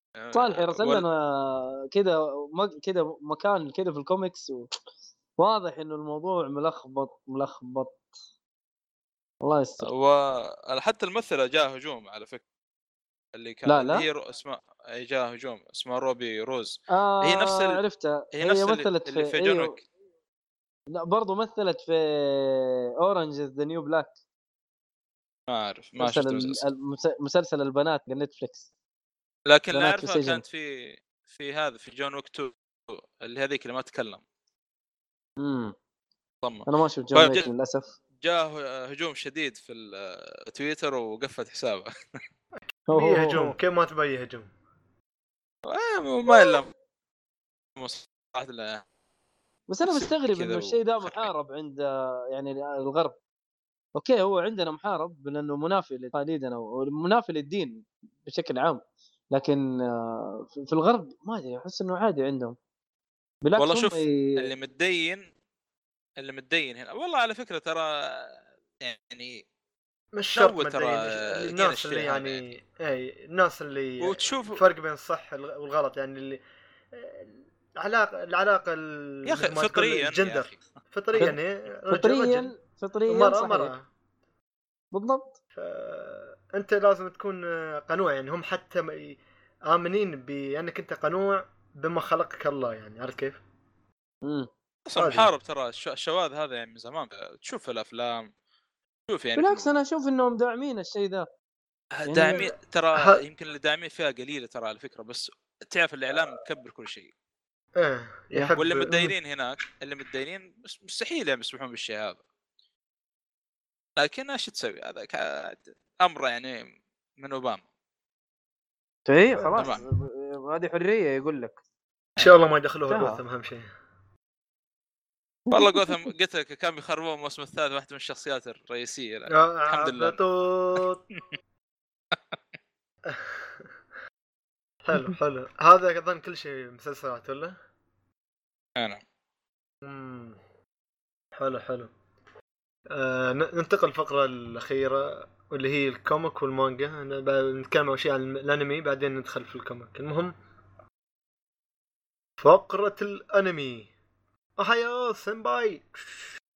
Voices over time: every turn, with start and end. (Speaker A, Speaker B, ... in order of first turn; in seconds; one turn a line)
Speaker A: 0.2-1.1
Speaker B: 0.3-4.7
Speaker B: 5.4-8.0
Speaker B: 9.4-9.9
Speaker A: 9.8-12.4
Speaker A: 13.3-17.8
Speaker B: 13.7-14.1
Speaker B: 16.9-19.8
Speaker A: 18.3-19.8
Speaker B: 20.9-24.1
Speaker A: 25.5-26.6
Speaker B: 26.0-28.7
Speaker A: 29.5-34.2
Speaker B: 29.7-30.4
Speaker B: 35.4-35.7
Speaker A: 36.4-37.5
Speaker B: 36.7-37.9
Speaker A: 38.2-41.9
Speaker B: 42.9-43.5
Speaker C: 42.9-44.5
Speaker A: 45.7-46.7
Speaker A: 47.8-48.8
Speaker B: 49.7-53.2
Speaker A: 49.9-51.3
Speaker B: 54.0-58.8
Speaker B: 59.3-62.6
Speaker B: 63.4-64.5
Speaker A: 63.6-65.2
Speaker A: 66.2-69.4
Speaker C: 70.1-76.4
Speaker A: 70.4-72.4
Speaker A: 74.0-74.7
Speaker C: 76.9-82.5
Speaker A: 79.3-80.6
Speaker B: 81.9-83.7
Speaker C: 83.1-83.9
Speaker B: 84.9-85.3
Speaker C: 85.6-93.4
Speaker B: 94.2-94.5
Speaker A: 94.9-98.3
Speaker C: 95.0-95.3
Speaker A: 99.1-99.7
Speaker B: 99.4-101.3
Speaker A: 102.0-107.1
Speaker B: 102.0-102.5
Speaker C: 102.3-103.2
Speaker C: 107.8-109.1
Speaker A: 108.3-112.2
Speaker A: 114.0-116.7
Speaker A: 117.2-117.6
Speaker B: 119.1-121.6
Speaker C: 119.3-119.8
Speaker A: 119.6-119.8
Speaker C: 122.2-123.7
Speaker B: 122.9-123.2
Speaker B: 125.5-125.9
Speaker A: 125.5-130.2
Speaker C: 129.3-131.0
Speaker C: 133.1-133.7
Speaker C: 134.8-137.6
Speaker C: 139.8-140.4
Speaker C: 141.4-141.9
Speaker C: 142.9-150.3
Speaker C: 152.4-153.9
Speaker C: 154.6-156.2